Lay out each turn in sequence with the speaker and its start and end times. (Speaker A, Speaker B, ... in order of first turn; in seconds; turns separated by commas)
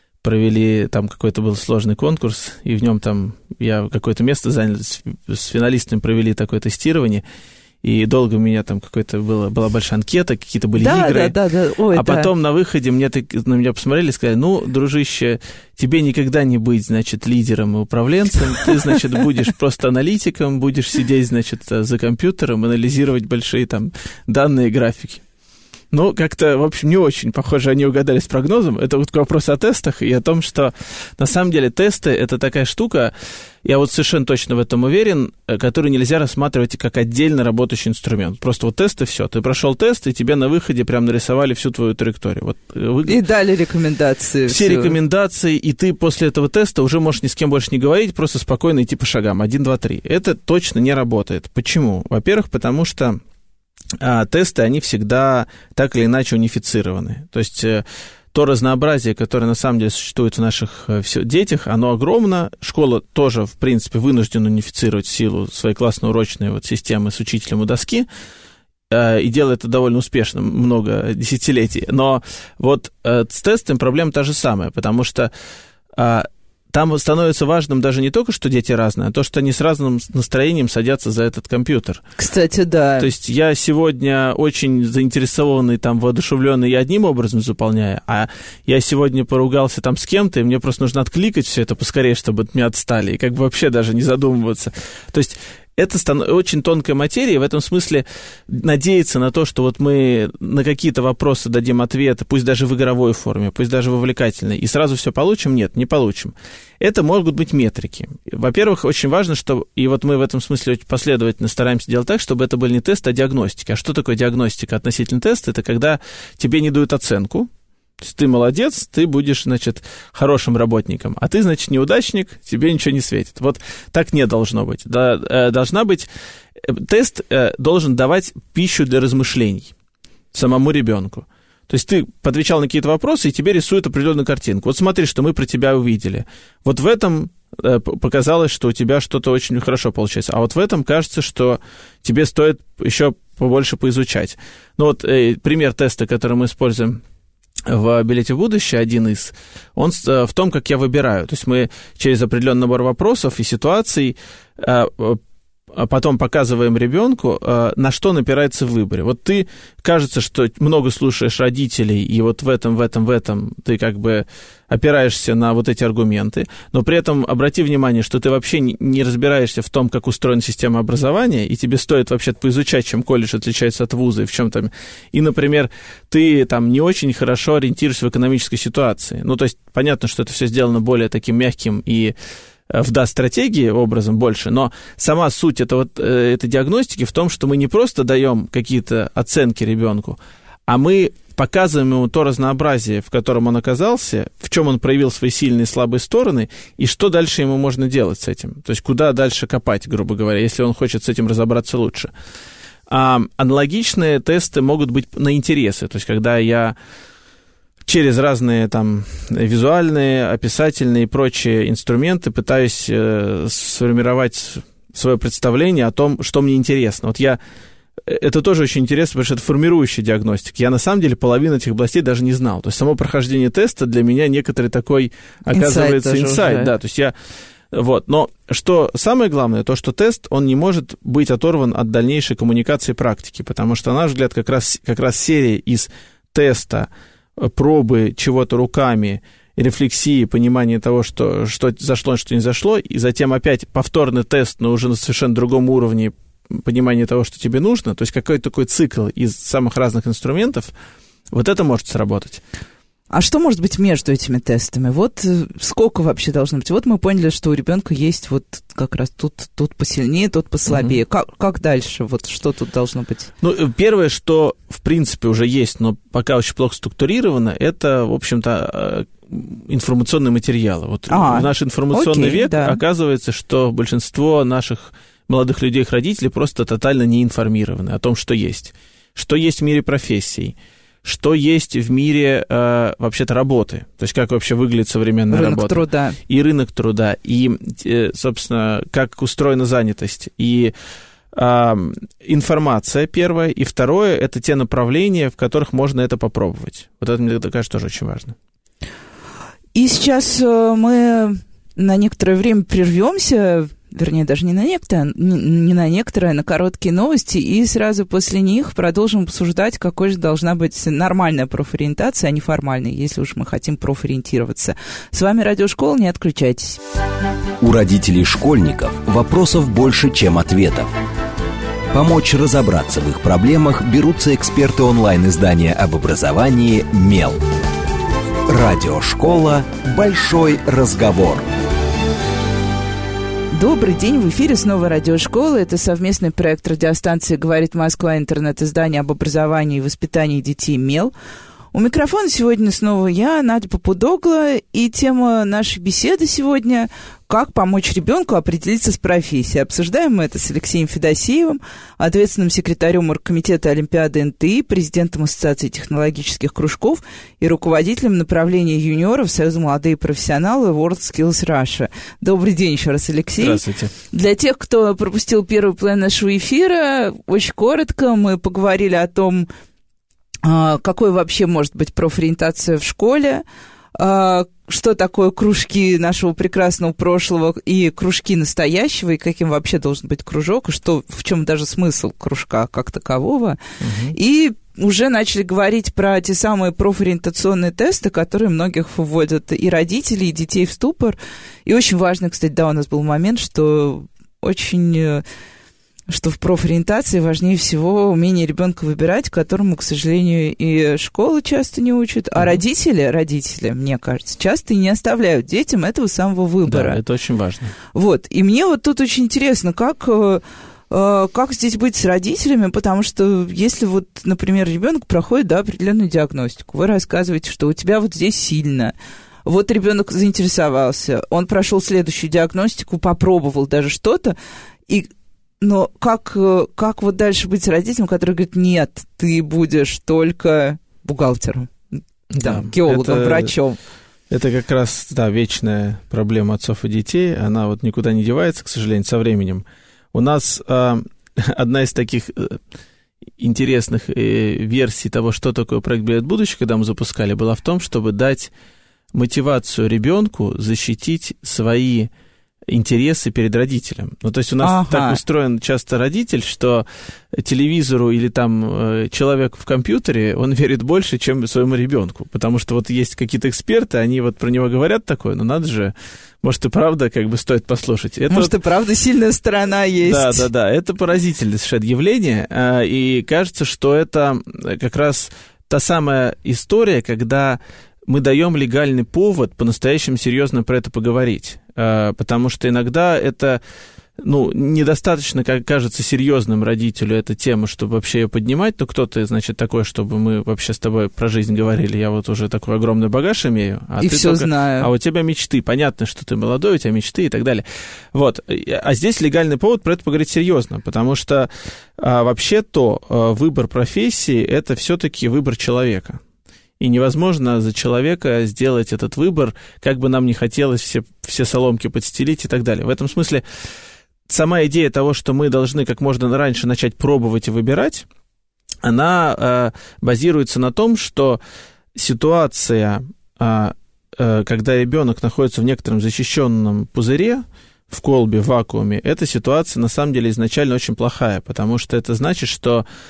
Speaker A: 0.2-7.2, Speaker A: 7.8-11.3, Speaker B: 10.8-12.3, Speaker A: 11.9-25.2, Speaker A: 25.9-33.1, Speaker A: 33.6-43.2, Speaker B: 43.0-45.0, Speaker A: 44.5-53.2, Speaker A: 54.0-68.1, Speaker A: 68.9-75.3, Speaker A: 75.9-82.0, Speaker B: 82.2-83.1, Speaker A: 83.0-129.7, Speaker A: 130.3-147.0, Speaker A: 147.7-155.2, Speaker A: 155.7-182.1, Speaker A: 182.7-202.1, Speaker A: 202.9-206.8, Speaker A: 207.8-217.4, Speaker A: 218.0-227.1, Speaker B: 225.5-226.7, Speaker A: 227.7-250.7, Speaker A: 251.3-252.4, Speaker B: 253.1-263.3, Speaker A: 260.7-260.9, Speaker A: 263.4-290.7, Speaker B: 271.1-272.8, Speaker B: 285.3-286.2, Speaker A: 291.3-298.3, Speaker B: 299.7-316.8, Speaker C: 317.6-320.9, Speaker C: 321.9-327.4, Speaker C: 328.5-331.5, Speaker B: 333.5-341.1, Speaker B: 341.7-369.5, Speaker A: 363.4-363.9, Speaker B: 370.4-373.4, Speaker B: 373.9-383.6, Speaker A: 383.8-384.1, Speaker B: 384.1-395.2, Speaker B: 396.1-407.0, Speaker A: 406.6-407.7, Speaker B: 407.9-424.4, Speaker B: 425.6-431.7, Speaker A: 432.3-433.5, Speaker B: 432.4-433.8, Speaker A: 434.3-442.6, Speaker A: 443.4-448.5, Speaker A: 449.1-452.1, Speaker A: 452.7-468.5, Speaker B: 454.6-455.2, Speaker B: 468.3-470.5, Speaker A: 470.0-483.6, Speaker A: 484.2-506.2, Speaker B: 494.0-494.9, Speaker A: 506.8-513.4, Speaker A: 514.3-518.0, Speaker A: 518.8-521.4, Speaker A: 521.9-532.9